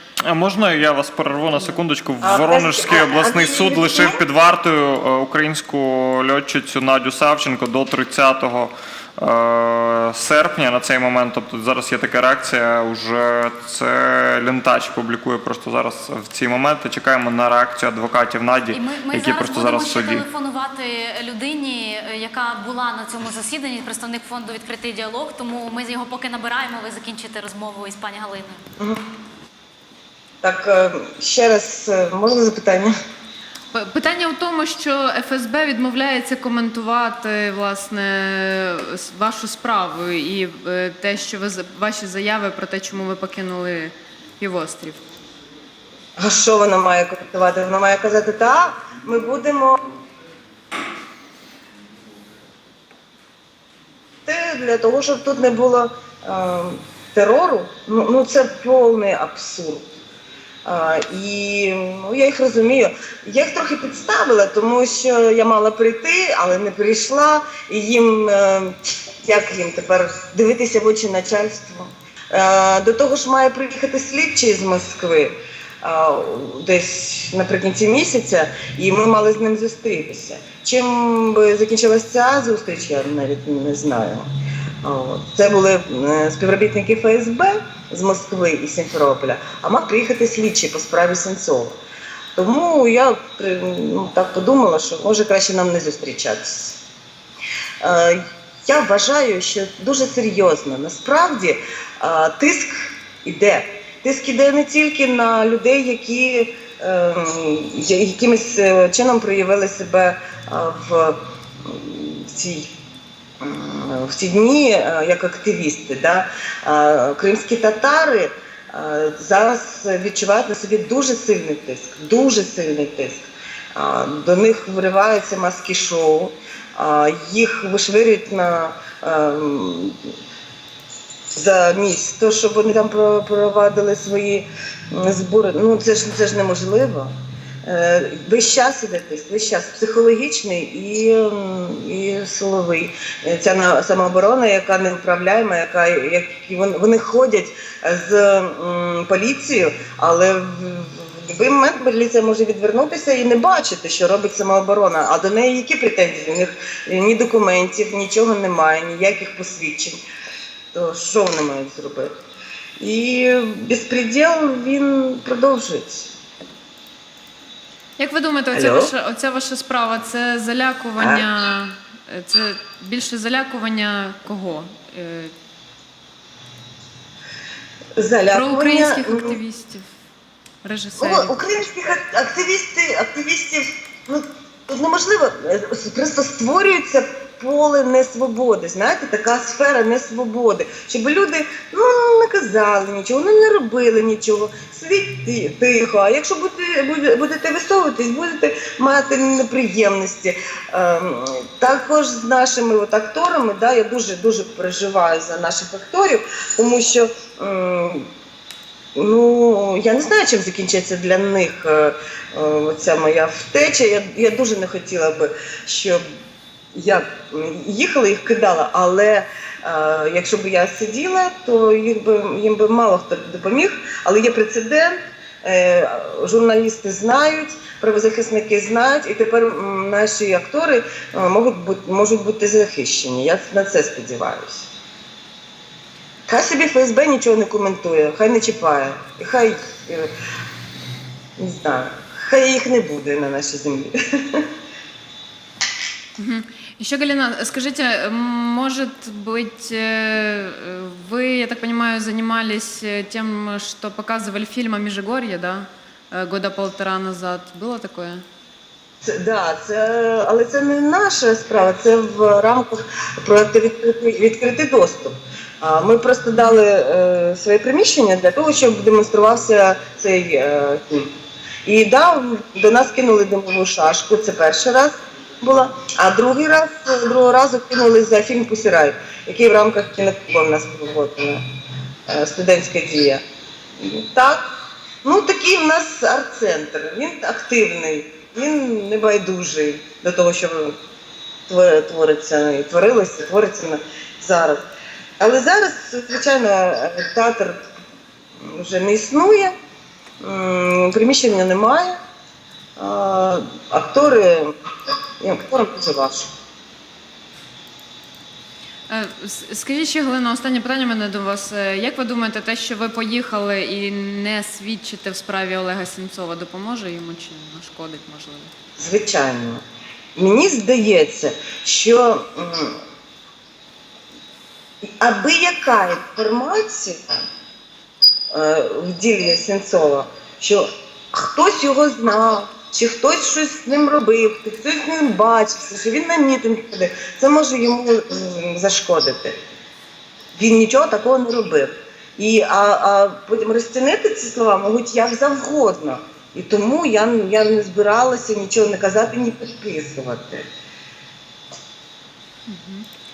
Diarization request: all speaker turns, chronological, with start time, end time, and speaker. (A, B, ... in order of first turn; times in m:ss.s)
0:00.3-0:20.3 A
0:02.2-0:04.2 B
0:18.7-0:28.6 C
0:30.4-0:32.9 B
0:33.7-0:45.1 D
0:46.2-0:49.8 B
0:54.2-0:59.9 B
1:00.6-1:24.3 B
1:24.8-1:31.8 B
1:32.4-1:36.8 B
1:37.8-1:52.7 B
1:53.4-2:10.0 B
2:11.3-2:17.1 B
2:17.6-2:40.0 B
2:40.7-2:42.1 B
2:42.8-2:46.1 B
2:48.0-2:55.3 D
2:48.5-2:48.9 B
2:51.0-2:51.3 B
2:58.0-2:59.4 B
2:58.3-2:59.8 D
3:00.6-3:01.4 D
3:01.0-3:28.1 B
3:29.0-3:36.0 B
3:36.8-3:54.7 B
3:56.3-4:00.1 B
4:01.4-4:04.5 B
4:06.2-4:18.2 D
4:19.0-4:31.1 B
4:31.6-4:41.4 B
4:42.1-4:43.2 B
4:43.8-4:44.4 B
4:45.0-4:50.8 B
4:51.5-4:54.6 B
4:55.2-4:57.7 B
4:58.4-4:59.5 B
5:00.2-5:02.0 B
5:02.8-5:04.5 B
5:05.2-5:06.3 B
5:08.9-5:18.5 D
5:18.8-5:19.6 B
5:20.2-5:22.8 B
5:25.0-5:27.1 B
5:28.3-5:39.4 B
5:40.4-5:50.4 B
5:52.5-5:52.9 D